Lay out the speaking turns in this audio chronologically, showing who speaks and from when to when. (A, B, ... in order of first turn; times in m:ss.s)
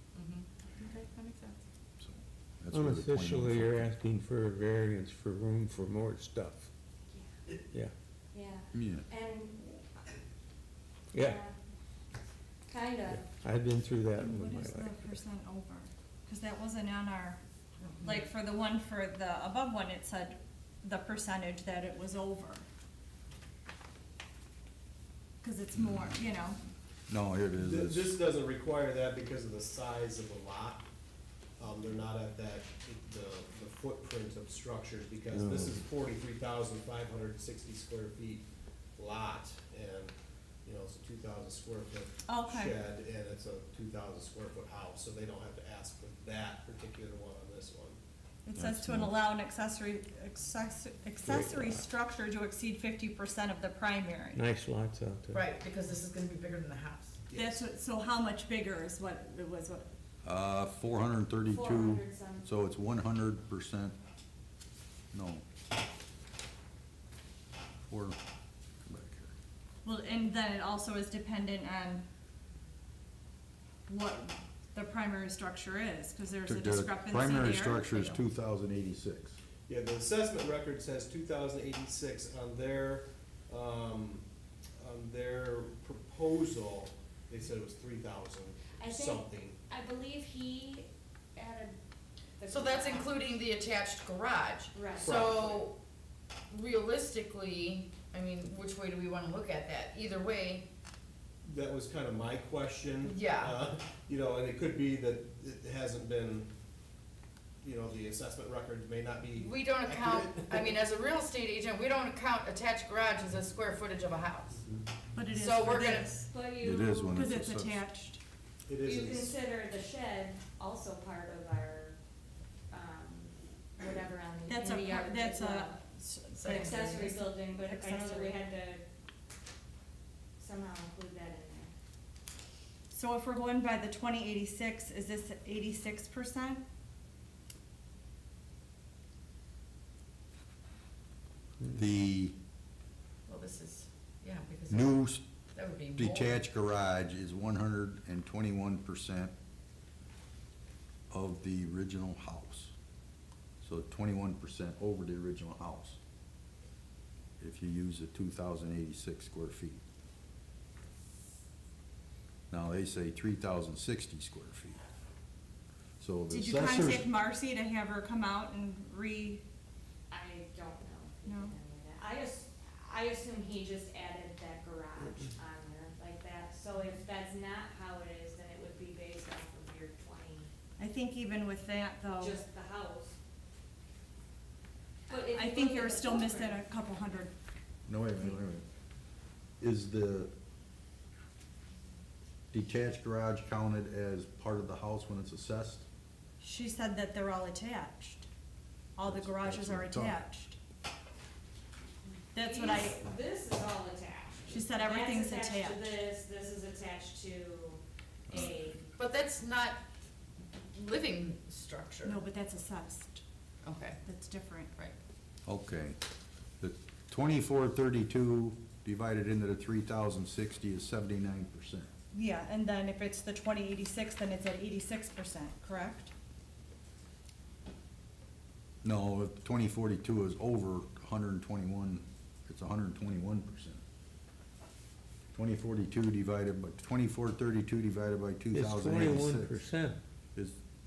0:00.2-0:01.6 A
0:02.0-0:03.9 B
0:02.7-0:06.7 C
0:08.3-0:10.0 D
0:08.7-0:09.1 B
0:11.1-0:11.4 C
0:11.2-0:11.6 D
0:12.7-0:13.3 D
0:13.1-0:15.2 C
0:14.2-0:17.4 E
0:17.8-0:18.2 A
0:18.0-0:22.6 E
0:25.4-0:26.6 E
0:25.8-0:26.1 B
0:27.1-0:28.1 B
0:27.6-0:30.8 F
0:31.6-0:38.4 F
0:35.3-0:35.8 C
0:39.0-0:40.1 F
0:40.6-0:48.0 F
0:42.3-0:42.8 E
0:48.5-0:54.4 E
0:48.6-0:49.2 B
0:51.3-0:51.8 C
0:54.3-0:55.4 C
0:55.3-0:57.2 A
0:57.3-0:57.6 F
0:57.3-0:59.9 E
1:00.2-1:04.0 B
1:01.5-1:02.4 D
1:05.1-1:05.4 B
1:07.9-1:08.2 B
1:08.8-1:09.3 B
1:09.8-1:12.0 E
1:13.9-1:18.2 E
1:16.5-1:19.4 B
1:19.7-1:24.2 F
1:24.8-1:29.6 F
1:28.8-1:31.8 D
1:32.4-1:33.2 D
1:32.5-1:35.8 A
1:34.7-1:35.2 D
1:34.9-1:35.6 F
1:36.5-1:40.6 A
1:41.4-1:46.5 F
1:43.0-1:43.6 A
1:47.6-1:50.8 F
1:49.4-1:54.6 A
1:55.2-1:56.2 E
1:55.4-1:56.1 A
1:56.2-1:57.3 D
1:56.6-1:57.8 B
1:57.1-1:58.2 E
1:58.7-1:59.3 F
1:58.8-2:02.0 D
2:02.7-2:05.8 D
2:04.5-2:08.4 E
2:06.4-2:06.9 A
2:06.4-2:08.8 D
2:10.4-2:11.7 D
2:12.9-2:16.6 E
2:21.7-2:22.4 B
2:23.3-2:25.0 A
2:24.7-2:25.2 B
2:25.5-2:26.4 A
2:26.0-2:29.3 B
2:31.1-2:32.7 B
2:33.6-2:36.0 B
2:37.4-2:39.8 B
2:42.5-2:44.8 B
2:46.0-2:47.1 B
2:46.3-2:49.4 E
2:50.1-3:00.5 D
2:51.3-2:51.5 E
3:00.8-3:02.4 E
3:02.2-3:03.2 D
3:05.1-3:06.6 D
3:05.1-3:07.3 E
3:07.9-3:08.6 B
3:09.6-3:10.3 B
3:12.5-3:15.8 B
3:16.4-3:18.3 E
3:19.0-3:20.6 E
3:19.0-3:20.2 B
3:22.3-3:23.1 E
3:22.3-3:28.9 D
3:24.5-3:25.9 E
3:29.0-3:29.8 A
3:30.7-3:32.2 A
3:32.0-3:33.2 E
3:33.6-3:34.0 A
3:34.0-3:34.7 E
3:35.5-3:36.0 B
3:36.6-3:41.9 B
3:42.1-3:46.1 E
3:48.8-3:53.8 B
3:55.3-3:59.6 B
3:58.5-4:00.0 C